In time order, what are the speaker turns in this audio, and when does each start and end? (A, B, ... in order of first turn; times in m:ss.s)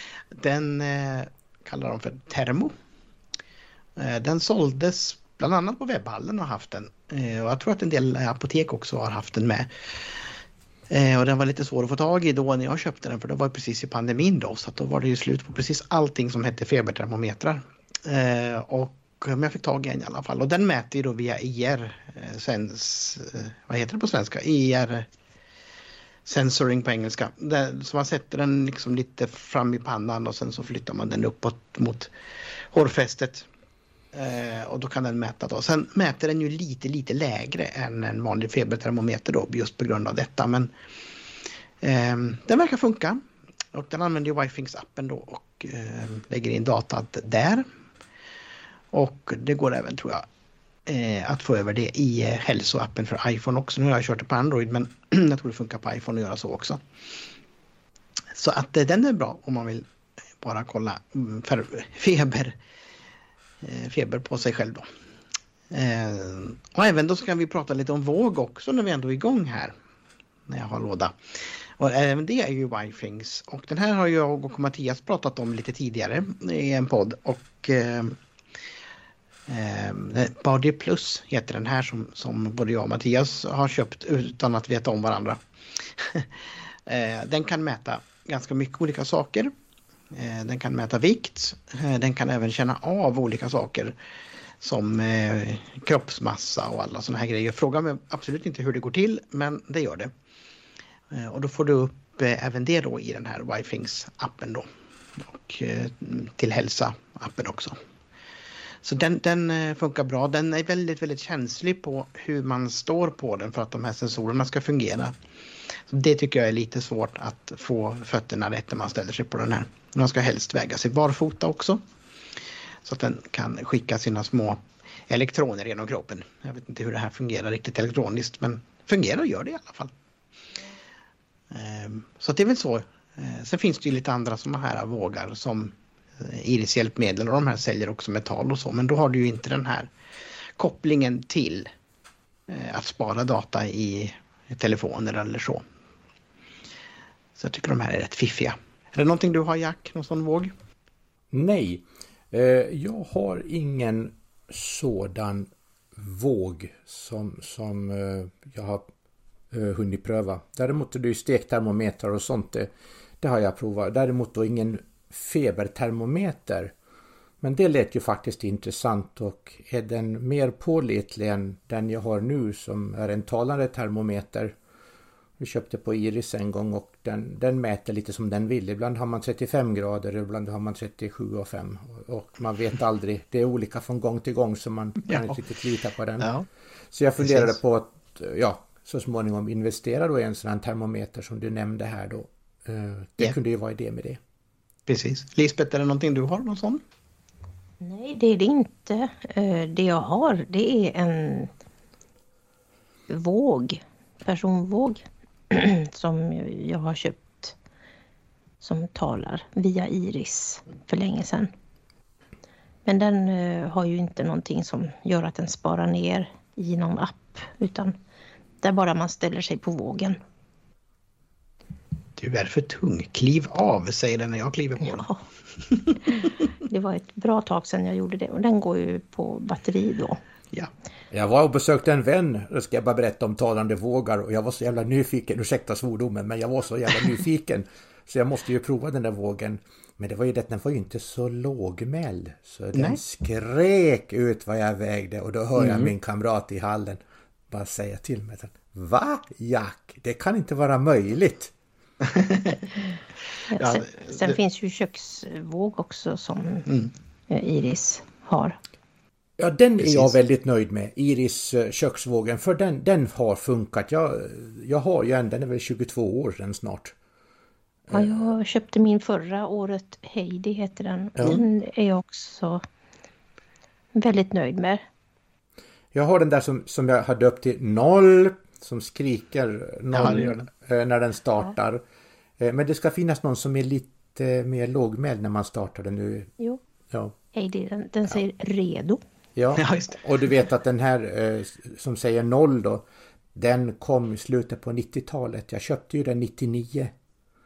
0:00.3-0:02.7 A
0:04.0-0:10.3 A
0:10.9-0:25.0 A
0:26.2-0:32.1 A
0:32.7-0:33.5 A
0:34.1-0:40.7 A
0:41.8-0:43.2 A
0:43.7-0:47.6 A
0:48.9-0:50.2 A
0:50.9-0:56.8 A
0:58.3-0:59.8 A
1:00.4-1:02.6 A
1:03.6-1:04.9 A
1:05.7-1:09.7 A
1:10.5-1:18.2 A
1:19.5-1:29.5 A
1:30.1-1:34.0 A
1:34.6-1:40.1 A
1:41.1-1:44.6 A
1:45.2-1:47.8 A
1:48.8-1:55.1 A
1:55.9-2:01.8 A
2:02.8-2:09.9 A
2:11.5-2:19.9 A
2:20.6-2:21.7 A
2:22.5-2:25.6 A
2:27.4-2:30.5 A
2:31.3-2:38.9 B
2:39.5-2:42.7 B
2:43.2-2:46.7 B
2:47.4-2:54.5 B
2:55.4-3:06.3 B
3:05.1-3:05.3 A
3:06.2-3:06.5 A
3:06.9-3:14.2 B
3:07.2-3:07.6 A
3:14.9-3:16.8 A
3:17.8-3:21.5 C
3:23.1-3:27.5 C
3:28.6-3:31.5 C
3:32.8-3:37.9 C
3:38.6-3:40.2 C
3:42.2-3:45.1 A
3:44.9-3:45.2 C
3:45.7-3:46.0 A
3:46.1-3:50.2 C
3:51.1-4:11.5 B
4:02.7-4:03.0 A
4:05.6-4:05.9 A
4:12.0-4:12.6 A
4:13.5-4:16.7 C
4:13.6-4:14.4 A
4:17.3-4:18.6 C
4:19.4-4:26.9 B
4:19.8-4:20.1 A
4:27.9-4:32.6 C
4:33.9-4:34.8 C
4:35.9-4:41.8 B
4:39.9-4:40.5 A
4:42.4-4:46.3 B
4:47.3-4:49.0 C
4:49.4-4:56.9 B
4:49.6-4:50.0 A